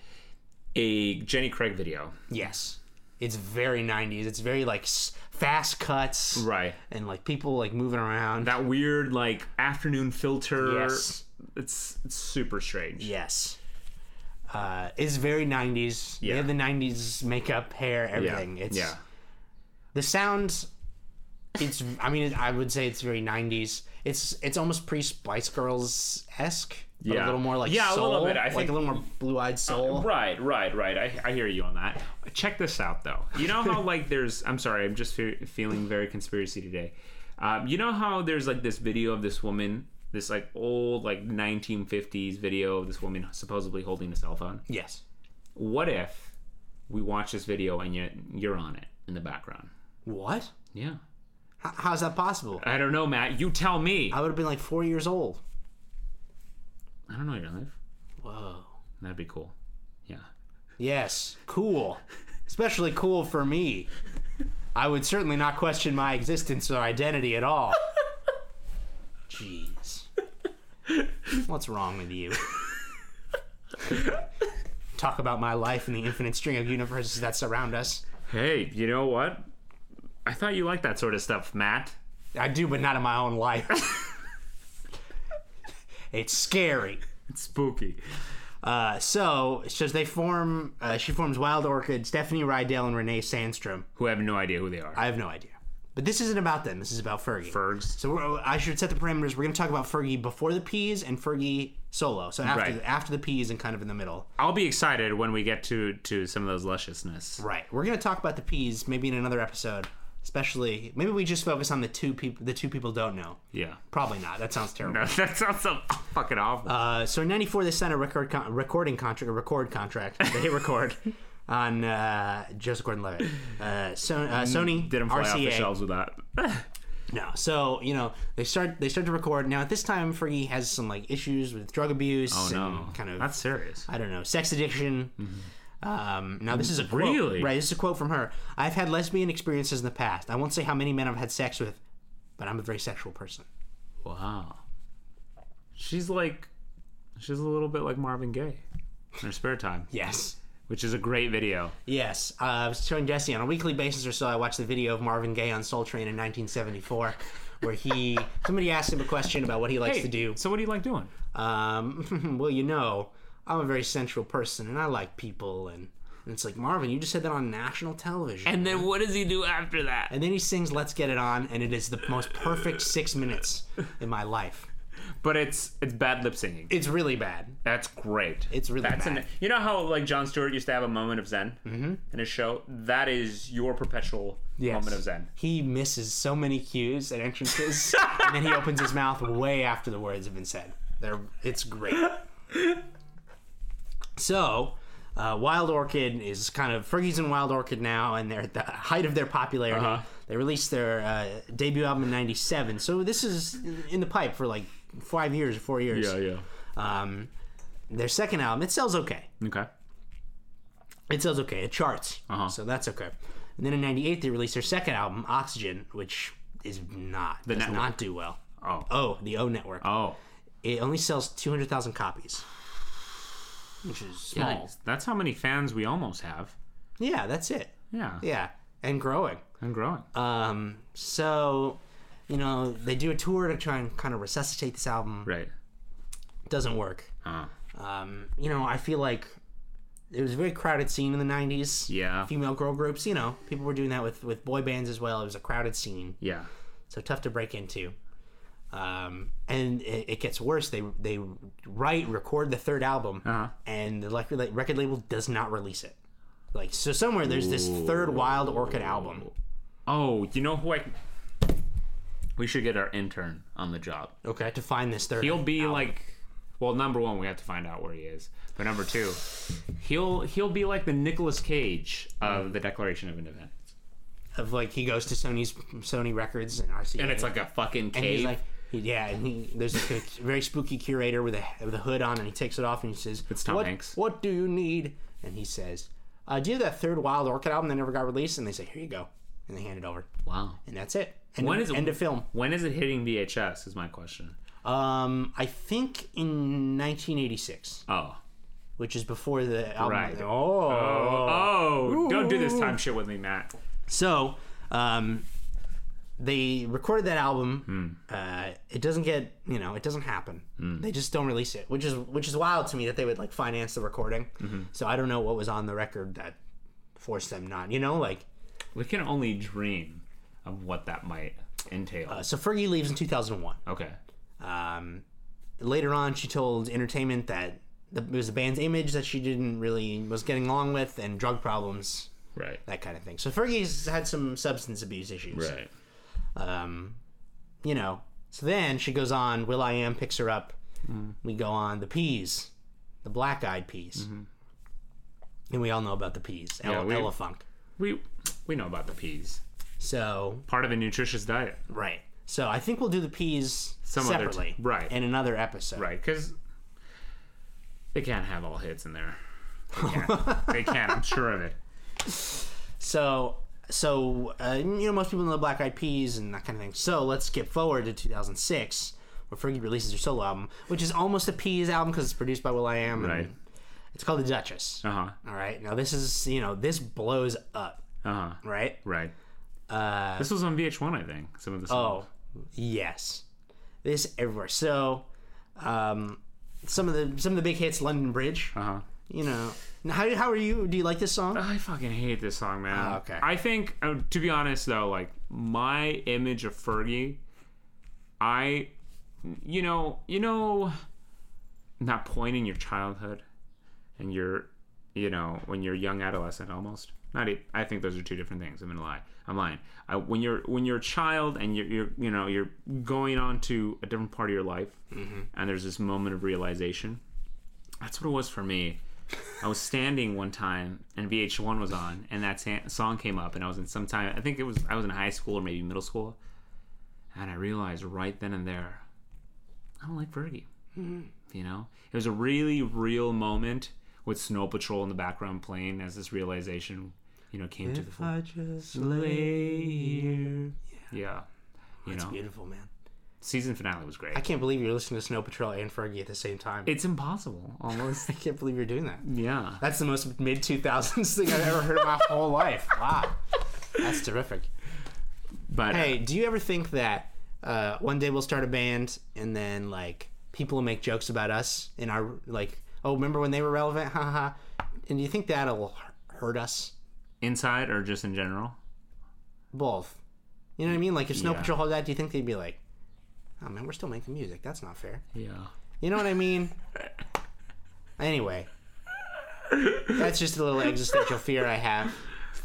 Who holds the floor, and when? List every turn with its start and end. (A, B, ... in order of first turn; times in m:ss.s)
0:00.7-0:02.2 A
0:02.3-0:08.6 B
0:06.3-0:06.8 A
0:08.4-0:13.1 A
0:10.6-0:11.2 B
0:13.0-0:13.6 B
0:14.5-0:18.9 B
0:16.2-0:16.5 A
0:18.1-0:19.0 A
0:19.9-0:20.7 B
0:21.6-0:30.1 B
0:27.0-0:29.0 A
0:29.7-0:44.6 A
0:44.7-0:45.0 B
0:45.5-0:46.3 A
0:46.9-0:49.7 A
0:50.0-0:50.5 B
0:50.7-0:51.0 A
0:51.6-0:52.6 B
0:52.6-0:54.2 A
0:54.1-0:55.4 B
0:57.1-0:57.7 A
0:58.2-0:58.7 B
0:59.0-0:59.5 A
1:00.8-1:03.9 B
1:04.7-1:07.8 B
1:09.3-1:10.1 B
1:11.3-1:12.4 B
1:14.9-1:18.0 B
1:18.3-1:19.5 A
1:20.2-1:22.0 A
1:22.3-1:24.2 B
1:26.1-1:27.0 B
1:27.3-1:28.0 A
1:28.6-1:33.9 B
1:34.0-1:35.0 A
1:35.0-1:44.3 B
1:37.5-1:38.0 A
1:42.4-1:42.8 A
1:44.4-1:47.4 A
1:47.4-1:53.4 B
1:53.5-1:53.8 A
1:53.9-1:55.1 B
1:54.8-1:56.8 A
1:56.6-2:05.7 B
2:04.3-2:06.7 A
2:07.1-2:13.3 B
2:12.3-2:13.9 A
2:13.9-2:15.2 B
2:15.2-2:15.5 A
2:15.8-2:21.8 B
2:16.5-2:17.5 A
2:22.4-2:23.5 B
2:24.0-2:24.6 A
2:25.8-2:26.5 A
2:27.2-2:28.6 A
2:29.2-2:29.9 A
2:29.9-2:30.4 B
2:30.7-2:31.7 A
2:31.8-2:40.4 B
2:39.8-2:41.1 A
2:41.3-2:48.8 B
2:48.4-2:50.1 A
2:50.1-2:54.7 B
2:55.2-2:56.8 A
2:56.7-2:57.6 B
2:57.6-3:05.3 A
2:58.5-2:59.2 B
3:01.6-3:02.0 B
3:04.6-3:12.2 B
3:14.2-3:26.2 B
3:19.7-3:20.1 A
3:25.9-3:26.4 A
3:26.8-3:27.3 B
3:27.9-3:29.3 B
3:29.4-3:29.7 A
3:31.1-3:39.9 B
3:32.3-3:32.5 A
3:37.4-3:38.0 A
3:38.6-3:38.9 A
3:39.8-3:40.2 A
3:40.6-3:42.4 B
3:43.8-3:44.6 B
3:44.3-3:46.5 A
3:47.0-3:49.4 B
3:47.9-3:48.2 A
3:49.6-3:50.0 A
3:50.1-3:55.3 B
3:55.2-3:55.5 A
3:56.5-3:57.1 B
3:57.2-3:57.5 A
3:57.7-3:59.3 B
4:00.1-4:06.2 B
4:01.9-4:02.3 A
4:06.2-4:06.5 A
4:06.9-4:07.9 B
4:08.7-4:16.0 B
4:13.2-4:13.5 A
4:16.5-4:19.3 B
4:17.4-4:19.2 A
4:19.9-4:20.9 A
4:22.4-4:24.2 A
4:24.2-4:25.9 B
4:25.2-4:33.5 A
4:34.3-4:37.3 B
4:37.0-4:38.4 A
4:37.9-4:50.1 B
4:43.3-4:44.0 A
4:50.2-4:50.6 A
4:50.6-4:52.3 B
4:51.4-4:54.4 A
4:54.6-4:57.8 B
4:57.9-4:58.2 A
4:58.8-5:02.8 B
4:59.8-5:03.5 A
5:03.9-5:05.2 B
5:06.2-5:16.4 B
5:07.7-5:08.0 A
5:10.6-5:10.8 A
5:14.4-5:14.7 A
5:17.0-5:18.2 B
5:18.7-5:22.3 A
5:22.1-5:23.6 B
5:23.6-5:24.0 A
5:24.4-5:25.0 B
5:25.6-5:32.1 B
5:32.3-5:32.6 A
5:32.6-5:35.5 B
5:35.3-5:35.7 A
5:36.3-5:37.0 B
5:37.6-5:40.6 B
5:40.9-5:41.1 A
5:41.2-5:42.5 B
5:43.0-5:44.1 B
5:44.0-5:44.3 A
5:45.5-5:47.4 B
5:46.6-5:47.1 A
5:47.8-5:49.4 A
5:49.8-5:50.4 B
5:50.5-5:51.6 A
5:51.7-5:55.9 B
5:53.8-5:54.9 A
5:55.8-5:56.3 A
5:57.9-5:59.2 A
5:59.7-6:01.6 A
5:59.8-6:01.0 B
6:02.1-6:13.3 B
6:13.0-6:13.3 A
6:13.9-6:17.8 B
6:14.8-6:15.2 A
6:18.0-6:19.1 A
6:18.4-6:18.8 B
6:19.7-6:20.3 B
6:20.2-6:22.1 A
6:21.7-6:23.2 B
6:23.8-6:28.6 B
6:28.5-6:28.8 A
6:29.1-6:31.4 B
6:31.3-6:37.2 A
6:32.7-6:33.2 B
6:38.2-6:38.7 A
6:39.2-6:40.7 A
6:41.8-6:43.2 A
6:44.0-6:54.8 A
6:54.9-6:55.2 B
6:55.3-6:57.0 A
6:57.8-6:58.8 A
6:59.4-7:06.2 A
7:07.1-7:08.8 A
7:09.8-7:10.5 A
7:10.8-7:11.1 B
7:11.3-7:18.2 A
7:17.6-7:20.4 B
7:18.7-7:21.3 A
7:21.8-7:22.7 B
7:21.8-7:22.2 A
7:23.2-7:24.2 A
7:24.1-7:26.7 B
7:26.6-7:28.1 A
7:27.9-7:29.0 B
7:29.0-7:29.6 A
7:29.6-7:33.2 B
7:33.7-7:34.5 B
7:35.5-7:36.0 A
7:35.7-7:44.3 B
7:44.8-7:46.7 B
7:47.2-7:48.6 A
7:49.5-7:50.0 B
7:50.6-7:52.6 B
7:51.1-7:51.5 A
7:53.4-7:55.0 B
7:55.1-7:55.5 A
7:55.8-7:56.6 B
7:58.0-7:58.5 B
7:59.8-8:02.0 B